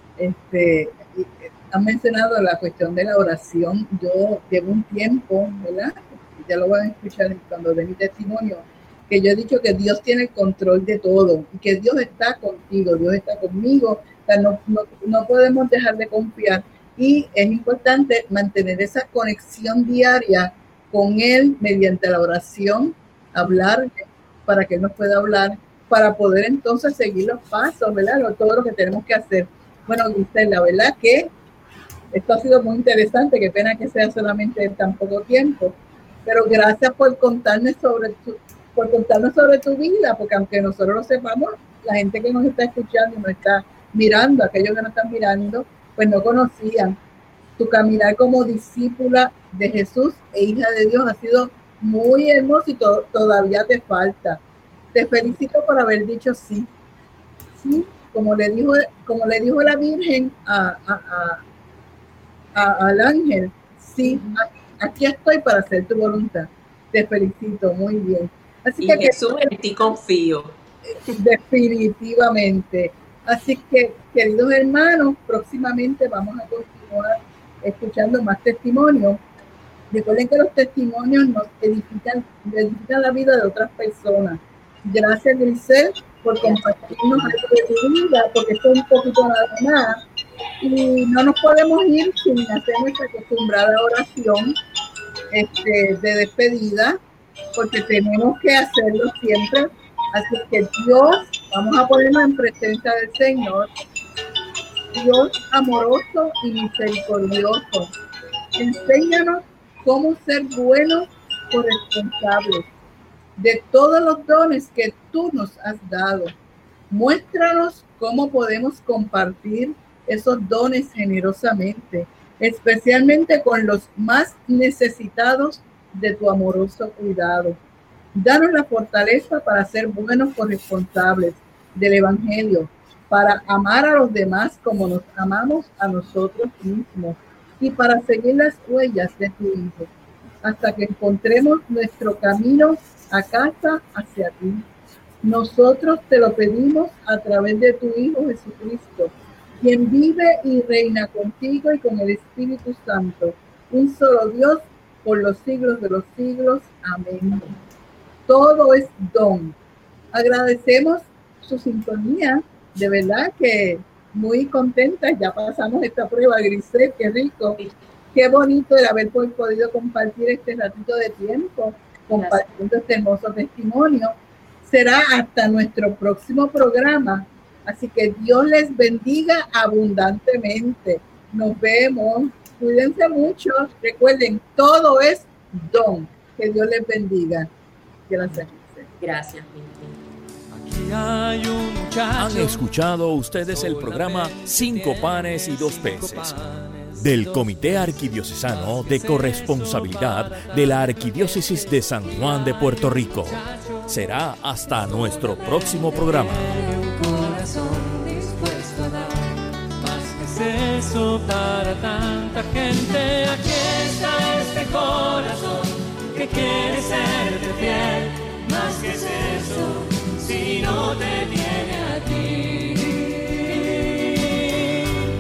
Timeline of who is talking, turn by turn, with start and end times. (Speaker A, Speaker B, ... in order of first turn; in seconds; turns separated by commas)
Speaker A: 0.2-31.3, Speaker A: 32.1-47.0, Speaker A: 47.6-54.4, Speaker A: 54.9-56.7, Speaker A: 57.6-61.4, Speaker A: 62.5-69.5, Speaker B: 68.8-70.6, Speaker A: 71.1-79.2, Speaker A: 79.9-90.0, Speaker B: 86.4-87.3, Speaker A: 90.6-94.6, Speaker A: 95.3-97.0, Speaker A: 97.5-103.7, Speaker A: 104.9-107.9, Speaker A: 108.6-112.7, Speaker A: 113.4-116.4, Speaker A: 116.9-127.6, Speaker A: 128.1-139.9, Speaker A: 140.4-144.7, Speaker A: 145.2-157.5, Speaker A: 158.3-159.6, Speaker A: 160.1-167.6, Speaker A: 168.1-187.5, Speaker B: 172.1-172.5, Speaker A: 188.1-188.9, Speaker B: 189.0-190.0, Speaker C: 190.5-192.6, Speaker D: 192.2-196.4, Speaker C: 193.3-204.2, Speaker D: 197.0-206.5, Speaker C: 204.7-224.8